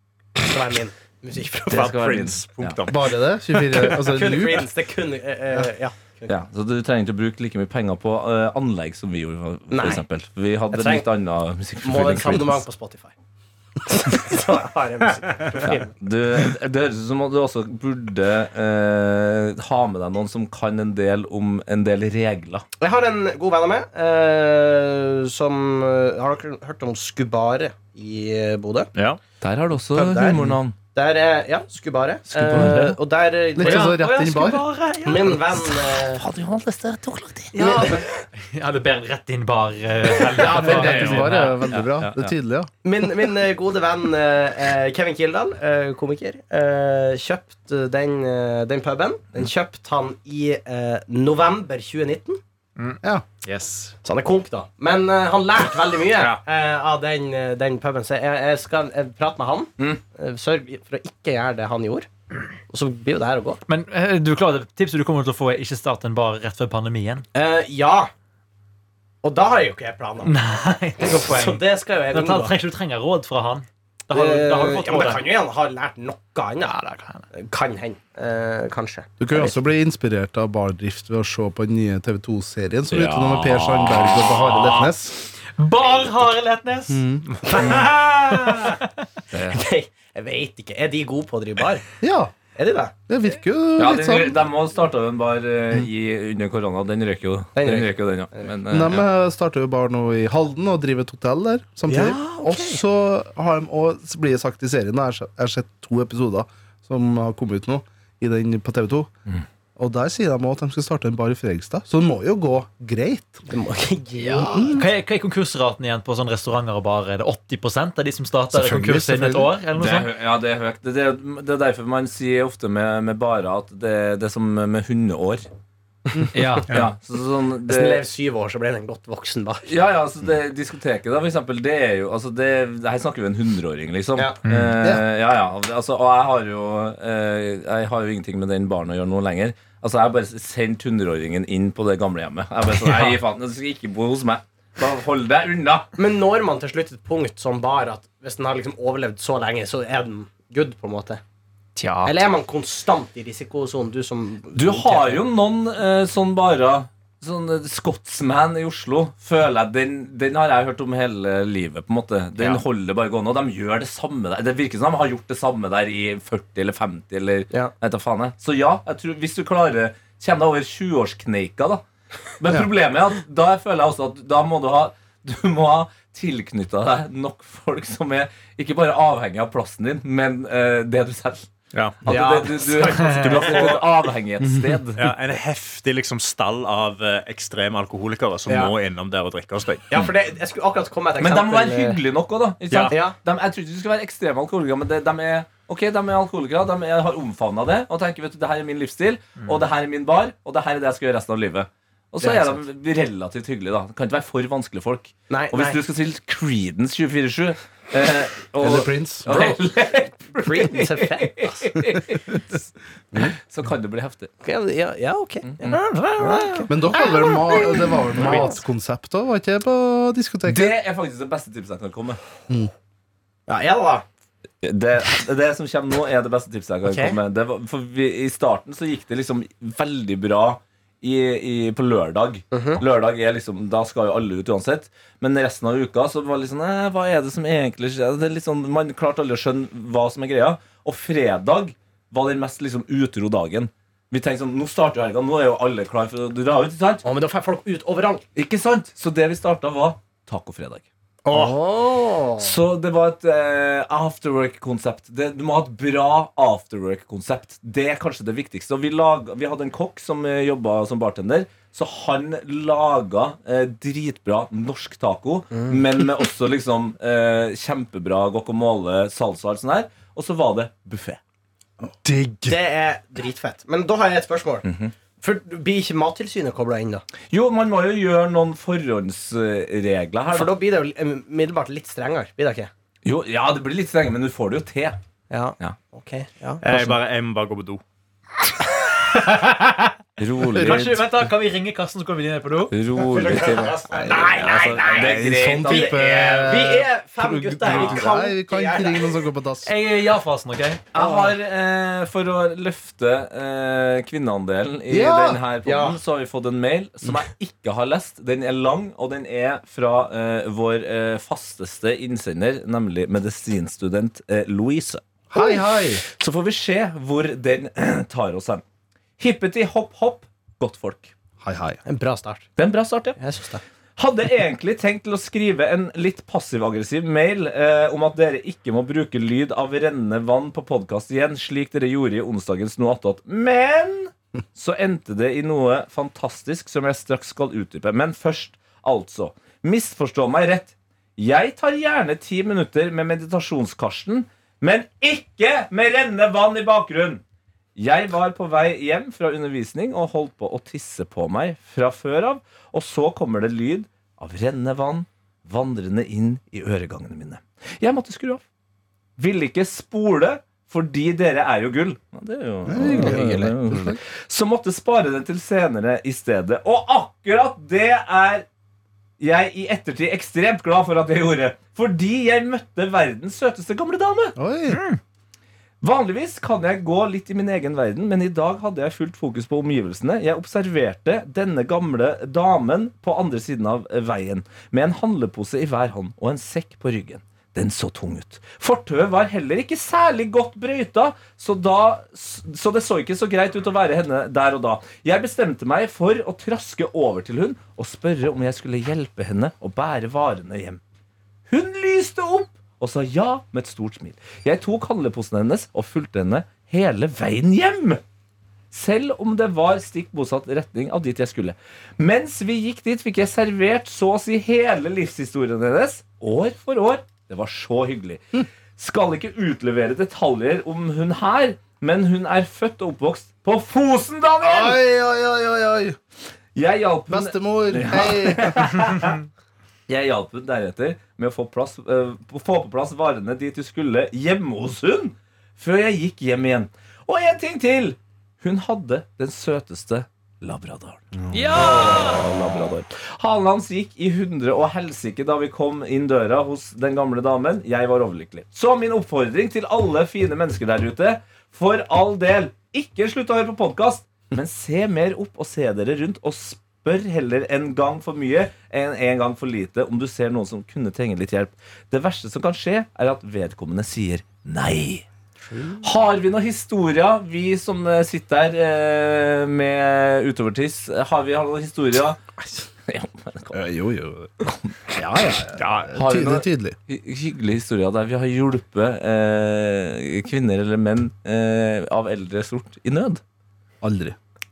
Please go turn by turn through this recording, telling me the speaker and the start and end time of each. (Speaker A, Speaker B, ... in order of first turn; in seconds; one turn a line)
Speaker A: 0.4-2.0
Speaker B: 1.7-3.1
Speaker C: 1.7-2.8
Speaker D: 2.9-4.7
Speaker A: 3.9-6.3
Speaker C: 6.3-12.6
Speaker A: 9.7-10.0
Speaker A: 10.7-11.1
Speaker A: 11.8-13.1
Speaker A: 13.9-15.9
Speaker C: 15.7-22.6
Speaker A: 22.8-28.9
Speaker C: 29.4-30.8
Speaker A: 29.9-34.0
Speaker C: 32.3-33.0
Speaker D: 33.6-34.7
Speaker E: 33.6-35.6
Speaker A: 35.0-36.2
Speaker C: 36.1-37.6
Speaker E: 37.5-41.7
Speaker A: 37.6-38.0
Speaker C: 40.2-42.3
Speaker D: 40.6-42.7
Speaker A: 42.8-52.4
Speaker E: 52.8-54.0
Speaker A: 54.0-62.1
Speaker A: 62.7-63.6
Speaker E: 63.7-67.2
Speaker A: 67.3-68.1
Speaker A: 69.2-70.3
Speaker E: 70.2-75.2
Speaker A: 71.0-72.5
Speaker A: 74.1-76.8
Speaker E: 76.7-77.2
Speaker A: 77.3-79.6
Speaker D: 79.2-85.2
Speaker C: 82.9-84.9
Speaker E: 85.5-87.1
Speaker D: 86.9-87.3
Speaker A: 87.4-88.6
Speaker E: 88.5-88.8
Speaker C: 89.3-89.6
Speaker A: 89.5-91.8
Speaker D: 92.0-92.3
Speaker A: 92.6-92.9
Speaker D: 93.1-94.4
Speaker C: 93.8-99.0
Speaker A: 97.6-98.5
Speaker D: 98.7-109.1
Speaker A: 101.9-102.8
Speaker D: 109.8-113.5
Speaker A: 113.5-114.8
Speaker E: 114.2-120.1
Speaker D: 114.5-114.9
Speaker D: 118.5-119.5
Speaker C: 119.8-125.5
Speaker E: 126.3-126.8
Speaker C: 126.7-128.0
Speaker A: 127.7-129.7
Speaker C: 129.7-145.9
Speaker E: 142.8-143.2
Speaker A: 146.0-151.2
Speaker E: 151.8-152.2
Speaker A: 152.1-155.2
Speaker C: 154.6-171.8
Speaker A: 162.4-162.6
Speaker C: 172.4-181.5
Speaker B: 181.7-182.0
Speaker C: 182.0-185.1
Speaker A: 182.1-183.8
Speaker E: 183.0-183.3
Speaker B: 183.3-183.8
Speaker B: 185.0-189.9
Speaker A: 188.5-188.7
Speaker A: 189.9-192.0
Speaker C: 191.2-212.4
Speaker B: 192.7-192.9
Speaker A: 192.9-193.2
Speaker A: 202.2-202.6
Speaker A: 205.3-205.8
Speaker D: 208.6-209.3
Speaker A: 209.3-209.6
Speaker A: 210.2-211.7
Speaker C: 213.5-214.3
Speaker A: 214.4-218.5
Speaker C: 215.5-215.8
Speaker D: 216.7-220.8
Speaker C: 220.5-222.2
Speaker A: 223.5-224.1
Speaker C: 224.6-247.0
Speaker A: 226.8-227.2
Speaker A: 232.5-232.8
Speaker A: 247.0-248.2
Speaker C: 248.4-250.9
Speaker A: 251.3-252.5
Speaker C: 252.4-271.2
Speaker A: 265.5-265.8
Speaker B: 272.0-272.6
Speaker A: 272.5-274.7
Speaker C: 274.6-274.9
Speaker A: 275.2-277.0
Speaker C: 277.3-280.5
Speaker A: 280.3-282.7
Speaker C: 283.1-285.0
Speaker A: 285.3-286.6
Speaker B: 286.6-287.8
Speaker E: 289.3-289.9
Speaker C: 290.2-291.1
Speaker E: 290.5-292.8
Speaker C: 292.7-296.7
Speaker A: 293.1-299.1
Speaker D: 293.9-299.7
Speaker C: 297.6-298.0
Speaker E: 299.6-300.9
Speaker C: 300.9-315.0
Speaker A: 301.0-301.3
Speaker D: 304.9-305.4
Speaker A: 305.6-306.0
Speaker D: 315.3-316.0
Speaker C: 316.1-318.6
Speaker C: 319.2-321.1
Speaker D: 321.4-321.8
Speaker A: 321.9-322.5
Speaker C: 322.6-323.2
Speaker A: 323.2-323.6
Speaker C: 324.0-347.2
Speaker C: 347.8-358.4
Speaker C: 359.2-368.5
Speaker D: 362.7-364.0
Speaker A: 362.8-363.2
Speaker C: 369.2-374.4
Speaker D: 374.4-374.8
Speaker E: 374.7-375.0
Speaker C: 375.8-400.8
Speaker C: 401.5-408.0
Speaker C: 408.7-424.8
Speaker D: 424.4-426.0
Speaker C: 426.6-429.2
Speaker D: 427.1-428.7
Speaker C: 429.9-465.1
Speaker E: 441.4-442.2
Speaker A: 465.5-465.8
Speaker C: 465.8-472.2
Speaker C: 472.9-473.6
Speaker D: 473.5-476.8
Speaker C: 474.4-474.7
Speaker C: 475.9-483.2
Speaker D: 483.8-484.2